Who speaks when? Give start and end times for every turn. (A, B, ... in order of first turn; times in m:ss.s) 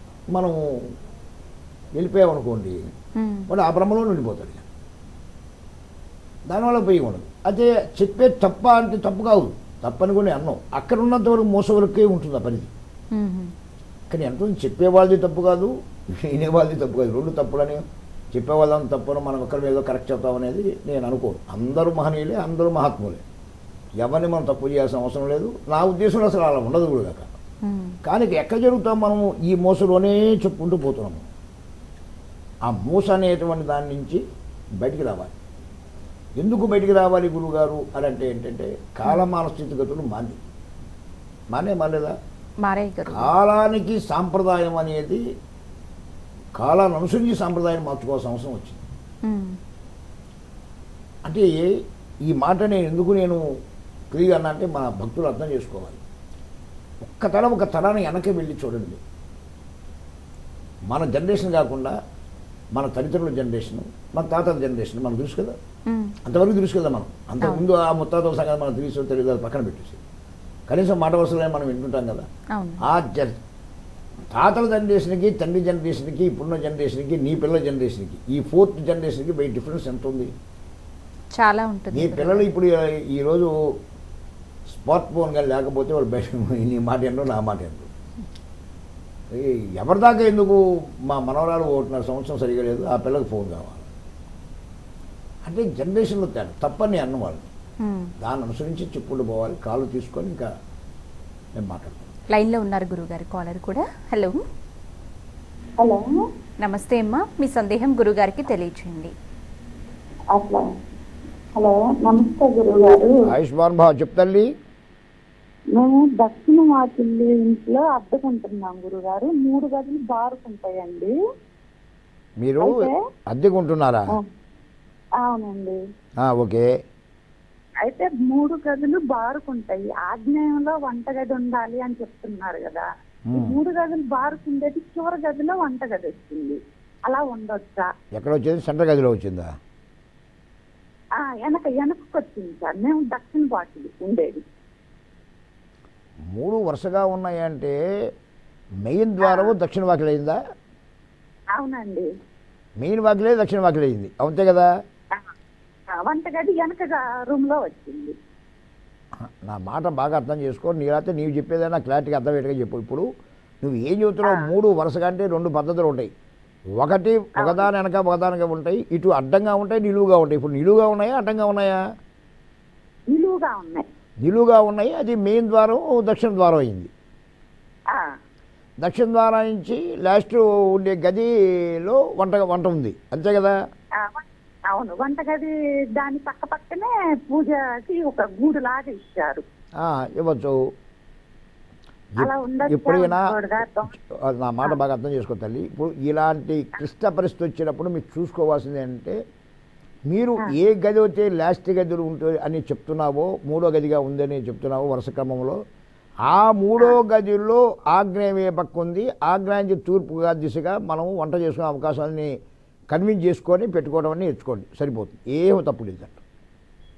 0:00.3-0:00.9 A
0:02.0-0:02.8 A
0:03.2-0:03.5 B
0:03.5-0:04.6 A
0:06.5-0:12.7 A
0:13.1-0:13.5 B
0:14.1-0:23.2 A
0:24.0-0:27.3 A
0:27.6-0:28.0 B
0:28.0-0:31.2 A
0:32.6-0:34.2 A
0:34.8-0:35.3 A
0:36.4-0:40.4 A
0:41.5-0:42.2 A
0:42.6-0:43.3 B
0:43.1-0:45.2 A
0:46.6-0:48.8 A
0:49.2-0:49.6 B
0:51.2-0:53.4 A
0:54.1-0:56.0 A
0:57.0-0:59.0 A
1:00.9-1:02.0 A
1:02.7-1:05.5 A
1:05.9-1:06.1 B
1:06.2-1:10.0 A
1:10.7-1:12.3 A
1:12.5-1:12.8 B
1:12.8-1:13.4 A
1:14.3-1:20.3 A
1:21.3-1:22.4 B
1:21.9-1:23.5 A
1:24.7-1:27.9 A
1:29.3-1:33.9 A
1:35.4-1:37.5 A
1:37.8-1:38.1 B
1:38.2-1:40.5 A
1:41.5-1:42.1 A
1:42.3-1:44.4 B
1:45.8-1:46.1 C
1:46.6-1:49.1 B
1:50.3-1:50.6 C
1:51.6-1:53.1 C
1:53.2-1:54.5 A
1:55.8-2:01.1 C
2:02.4-2:02.8 A
2:02.6-2:03.0 C
2:03.3-2:04.2 A
2:05.2-2:05.8 C
2:06.2-2:06.7 A
2:07.8-2:17.9 C
2:13.3-2:13.6 A
2:18.1-2:19.5 A
2:21.2-2:24.4 C
2:26.3-2:27.7 A
2:28.8-2:30.4 A
2:29.2-2:29.5 C
2:31.6-2:32.0 C
2:32.8-2:34.7 A
2:36.0-2:38.1 C
2:39.2-2:43.1 A
2:43.6-2:46.1 A
2:46.8-2:51.8 A
2:47.4-2:47.7 C
2:53.1-2:53.8 C
2:54.2-2:56.9 A
2:58.8-3:03.5 A
3:04.0-3:09.4 C
3:09.8-3:10.6 A
3:12.2-3:13.3 A
3:12.2-3:13.9 C
3:13.9-3:19.2 A
3:20.1-3:25.6 A
3:26.2-3:32.3 A
3:32.9-3:36.2 A